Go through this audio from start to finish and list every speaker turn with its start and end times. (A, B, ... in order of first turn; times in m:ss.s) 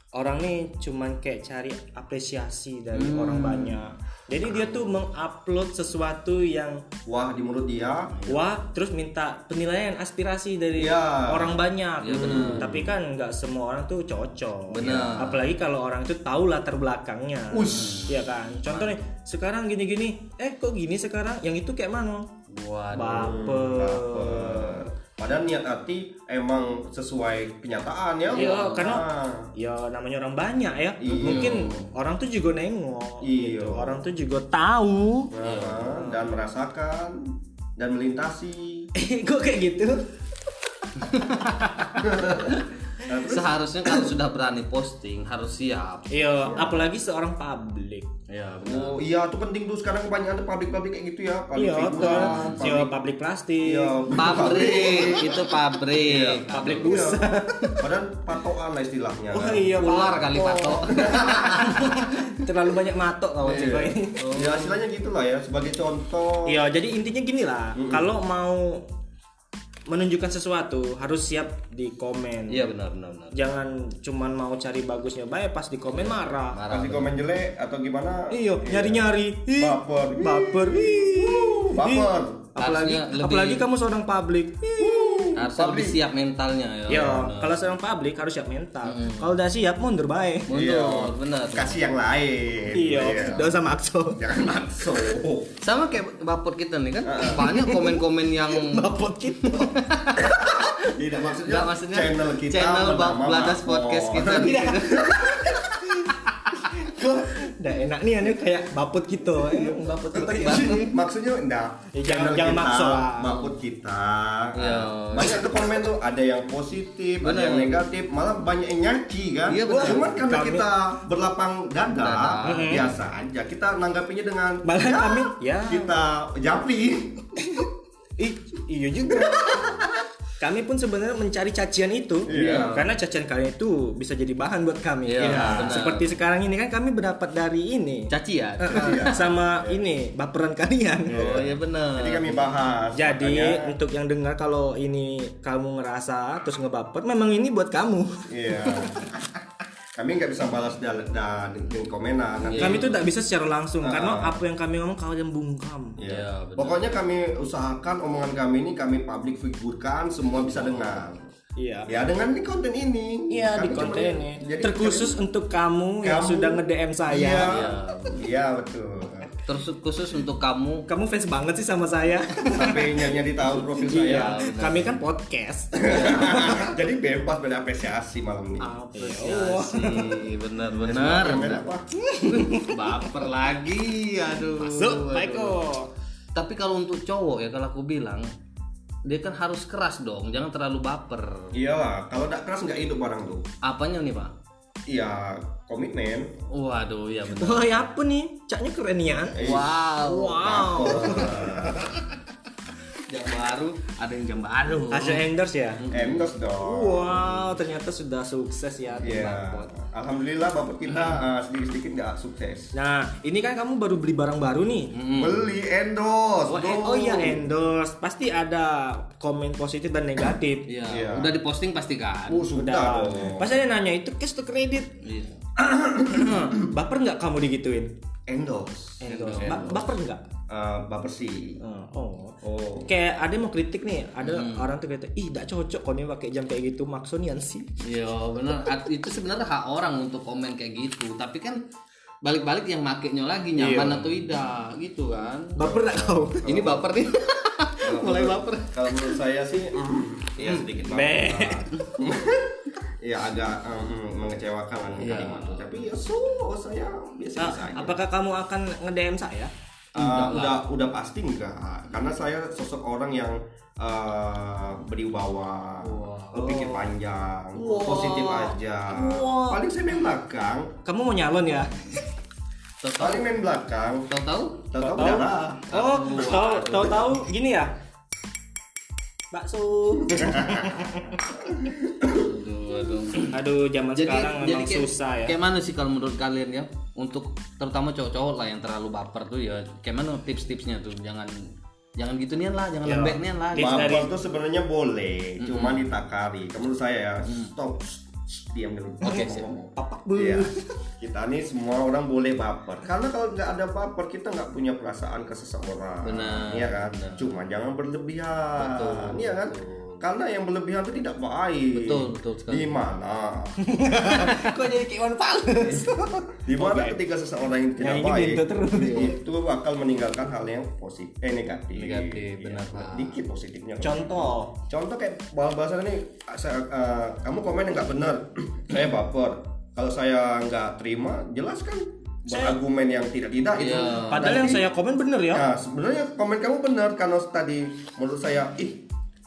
0:00.2-0:06.8 A
0:02.9-0:03.8 B
0:07.1-0:08.1 C
0:08.1-0:08.5 B
0:08.3-0:22.3 A
0:10.8-0:11.6 C
0:12.0-0:12.9 B
0:12.2-0:12.8 C
0:14.7-0:15.5 B
0:14.8-0:15.2 C
0:17.5-0:18.1 C
0:17.8-0:19.0 B
0:22.5-0:23.6 B
0:22.9-0:24.8 A
0:23.2-0:29.5 C
0:28.3-0:29.0 B
0:28.3-0:35.3 A
0:31.0-0:31.7 C
0:31.2-0:31.9 B
0:33.2-0:34.0 C
0:35.3-0:38.9 C
0:35.4-0:36.0 B
0:36.0-0:36.3 A
0:39.0-0:40.0 A
0:41.0-0:41.9 A
0:41.1-0:42.0 B
0:42.0-0:43.5 C
0:43.2-0:46.7 B
0:46.1-0:48.1 A
0:46.4-0:46.9 C
0:48.3-0:49.0 B
0:48.6-0:52.9 C
0:51.6-0:54.7 A
0:52.0-0:52.7 B
0:53.6-0:55.5 C
0:54.1-0:57.1 B
0:56.0-0:59.7 C
0:56.5-0:57.8 A
0:59.3-1:04.2 A
0:59.7-1:01.8 B
1:00.9-1:01.5 C
1:03.4-1:06.6 C
1:04.2-1:04.8 B
1:06.5-1:08.8 A
1:07.8-1:08.1 C
1:09.9-1:12.7 A
1:12.5-1:13.4 B
1:13.3-1:16.6 A
1:15.9-1:17.2 B
1:16.7-1:22.4 C
1:18.3-1:25.4 A
1:22.6-1:23.7 B
1:24.8-1:26.0 C
1:25.4-1:27.6 B
1:26.9-1:30.5 A
1:28.8-1:29.4 B
1:30.5-1:31.8 B
1:30.5-1:33.6 C
1:32.7-1:34.2 A
1:34.2-1:35.6 C
1:35.6-1:40.2 B
1:37.0-1:37.5 C
1:37.2-1:40.7 A
1:40.2-1:45.6 C
1:41.4-1:45.1 B
1:44.6-1:45.6 A
1:46.6-1:50.9 A
1:50.1-2:07.3 C
1:50.2-1:50.6 B
1:51.9-1:53.5 A
1:54.6-1:55.5 B
1:57.2-1:57.8 B
1:59.5-2:00.1 B
1:59.7-2:00.7 A
2:02.0-2:02.9 B
2:02.4-2:02.9 A
2:04.6-2:05.9 A
2:08.2-2:09.8 A
2:09.3-2:09.7 C
2:10.4-2:21.4 A
2:12.3-2:12.7 C
2:12.3-2:13.0 B
2:15.1-2:16.1 B
2:15.2-2:15.8 C
2:18.1-2:19.2 B
2:18.7-2:19.8 C
2:21.1-2:22.4 B
2:21.1-2:23.8 C
2:23.0-2:29.1 A
2:28.3-2:29.3 C
2:30.0-2:32.9 C
2:32.5-2:33.0 B
2:32.6-2:36.0 A
2:33.8-2:34.4 C
2:36.0-2:41.2 C
2:36.1-2:37.0 B
2:40.5-2:40.9 B
2:41.6-2:42.0 A
2:41.9-2:45.2 C
2:43.3-2:47.6 A
2:46.0-2:49.3 C
2:47.5-2:48.2 B
2:49.4-2:50.9 B
2:50.9-2:53.1 A
2:52.5-2:54.4 C
2:53.8-2:56.6 A
2:53.9-2:55.0 B
2:55.8-2:58.7 C
2:55.9-2:56.3 B
2:58.6-3:00.2 A
2:59.0-3:01.6 B
3:00.7-3:01.9 C
3:02.0-3:03.0 A
3:02.2-3:05.6 B
3:04.6-3:05.9 A
3:06.3-3:08.3 B
3:09.0-3:11.6 B
3:11.5-3:13.5 C
3:13.6-3:14.3 B
3:14.9-3:16.4 C
3:16.5-3:17.9 B
3:17.3-3:21.6 A
3:19.3-3:19.9 C
3:19.4-3:21.5 B
3:20.4-3:21.9 C
3:23.1-3:25.3 B
3:24.9-3:25.8 A
3:25.8-3:26.3 B
3:25.9-3:27.4 C
3:26.6-3:29.7 A
3:29.0-3:32.7 C
3:32.7-3:34.9 A
3:34.9-3:35.4 B
3:35.2-3:37.5 C
3:36.5-3:40.7 A
3:40.7-3:42.5 B
3:40.9-3:41.4 C
3:42.3-3:43.5 C
3:42.6-3:44.9 A
3:45.0-3:45.4 B
3:45.6-3:46.7 C
3:45.9-3:47.9 A
3:48.3-3:49.8 C
3:49.0-3:50.2 A
3:49.1-3:49.9 B
3:50.5-3:51.6 C
3:51.6-3:57.9 A
3:52.4-3:52.9 C
3:54.2-3:54.7 B
3:57.8-4:01.6 B
4:02.2-4:05.6 B
4:03.6-4:04.1 A
4:05.6-4:06.6 A
4:05.6-4:06.9 C
4:06.4-4:09.2 B
4:07.8-4:18.0 C
4:10.4-4:10.7 B
4:10.9-4:11.9 A
4:15.0-4:15.8 B
4:17.4-4:19.5 A
4:19.9-4:30.7 C
4:20.0-4:20.6 B
4:25.8-4:26.4 B
4:26.4-4:26.9 A
4:27.6-4:29.6 A
4:30.8-4:32.0 A
4:32.8-4:33.3 B
4:33.0-4:34.1 C
4:34.1-4:34.7 B
4:34.7-4:35.7 C
4:34.8-4:37.7 A
4:35.7-4:37.1 B
4:39.3-4:41.2 A
4:40.1-4:40.9 C
4:41.6-4:42.1 C
4:42.1-4:43.3 B
4:43.3-4:45.4 A
4:44.0-4:51.3 B
4:52.0-4:54.0 B
4:52.8-4:54.1 A
4:53.6-5:00.5 C
4:55.4-4:55.9 B
4:59.0-5:00.7 A
5:01.0-5:14.1 C
5:06.0-5:07.3 B
5:08.6-5:10.0 B
5:11.7-5:12.8 B
5:13.6-5:17.0 A
5:16.5-5:34.7 C
5:17.8-5:19.2 A
5:21.8-5:23.2 B
5:23.8-5:24.6 A
5:32.3-5:32.6 A
5:33.6-5:34.6 B
5:34.1-5:35.4 A
5:35.3-5:38.8 C